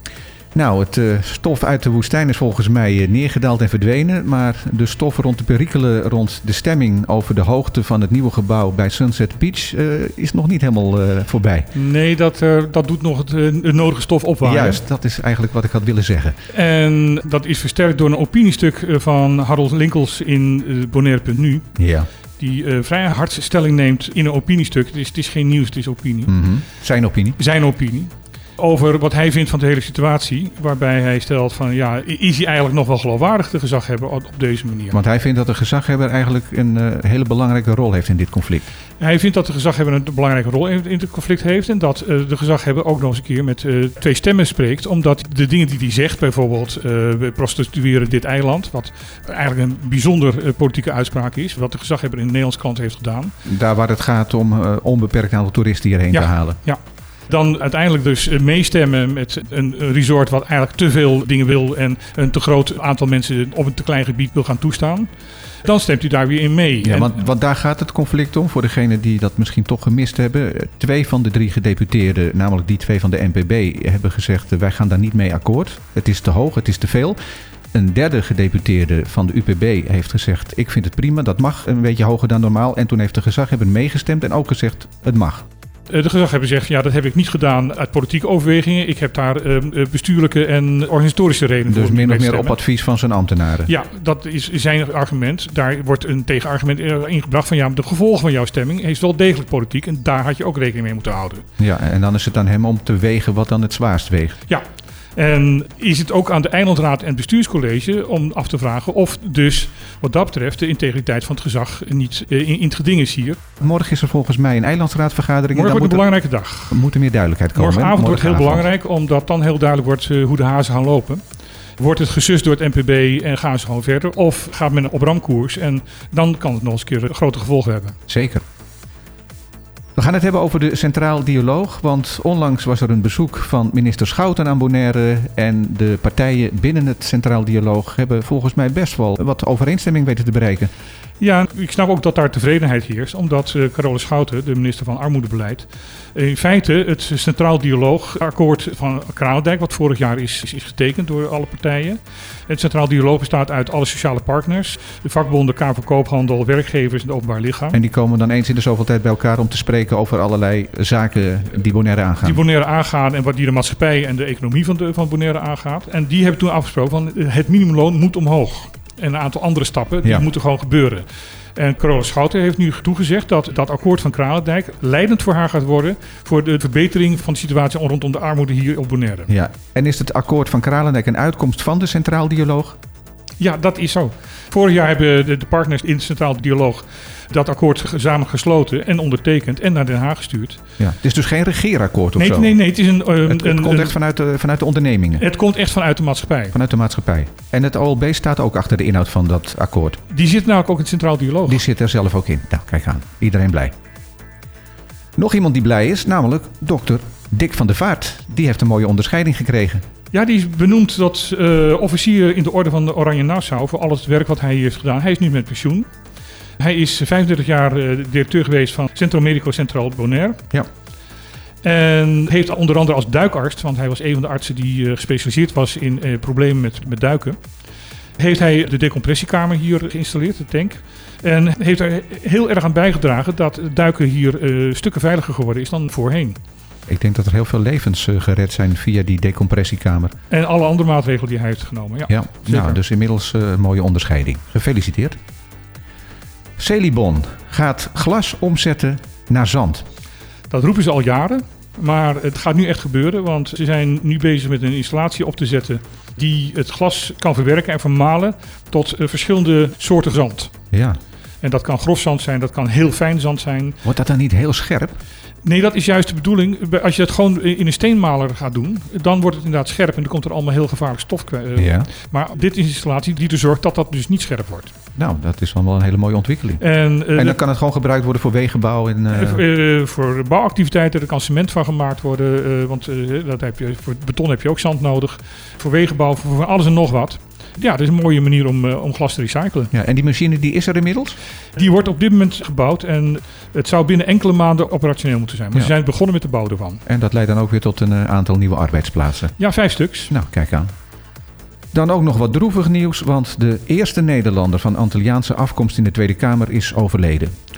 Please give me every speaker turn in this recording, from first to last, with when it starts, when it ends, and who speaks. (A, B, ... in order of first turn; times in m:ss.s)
0:00.6-0:11.7 A
0:11.7-0:14.8 B
0:14.4-0:16.4 A
0:16.5-0:21.8 B
0:21.8-0:22.1 A
0:22.4-0:26.3 B
0:26.3-0:27.4 A
0:27.4-0:35.0 B
0:34.9-0:38.6 A
0:39.0-0:53.3 B
0:53.4-0:56.6 A
0:56.1-1:05.1 B
1:05.6-1:07.2 B
1:06.8-1:17.2 A
1:17.7-1:25.4 A
1:25.9-1:32.6 B
1:31.7-1:33.7 A
1:33.6-1:41.4 B
1:41.6-1:44.4 A
1:45.2-1:53.4 B
1:53.6-1:56.1 A
1:55.5-1:56.8 B
1:56.7-1:58.7 A
1:57.6-2:01.2 B
2:01.8-2:08.0 B
2:08.1-2:08.4 A
2:10.0-2:20.7 A
2:21.2-2:37.8 B
2:37.7-2:42.4 A
2:42.2-2:51.0 B
2:51.6-2:59.3 B
2:59.3-3:02.8 A
3:03.4-3:10.6 B
3:10.8-3:12.6 A
3:12.2-3:14.0 B
3:13.2-3:15.2 A
3:15.2-3:16.6 B
3:16.5-3:20.0 A
3:20.1-3:21.6 B
3:21.5-3:23.7 A
3:25.2-3:29.8 A
3:30.1-3:35.9 B
3:36.6-3:40.4 B
3:41.6-3:47.4 B
3:48.2-3:56.4 B
3:56.9-4:00.1 A
4:00.3-4:02.8 B
4:02.1-4:05.2 A
4:06.6-4:09.8 A
4:10.5-4:20.5 B
4:20.7-4:21.0 A
4:21.4-4:23.8 B
4:23.8-4:25.0 A
4:25.4-4:34.7 B
4:31.6-4:31.9 A
4:35.0-4:36.6 A
4:36.6-4:37.4 B
4:37.2-4:39.4 A
4:39.1-4:49.7 B
4:49.7-4:51.2 A
4:51.6-4:56.8 B
4:56.9-4:59.3 A
4:59.4-5:00.1 B
5:00.1-5:00.7 A
5:01.7-5:07.3 A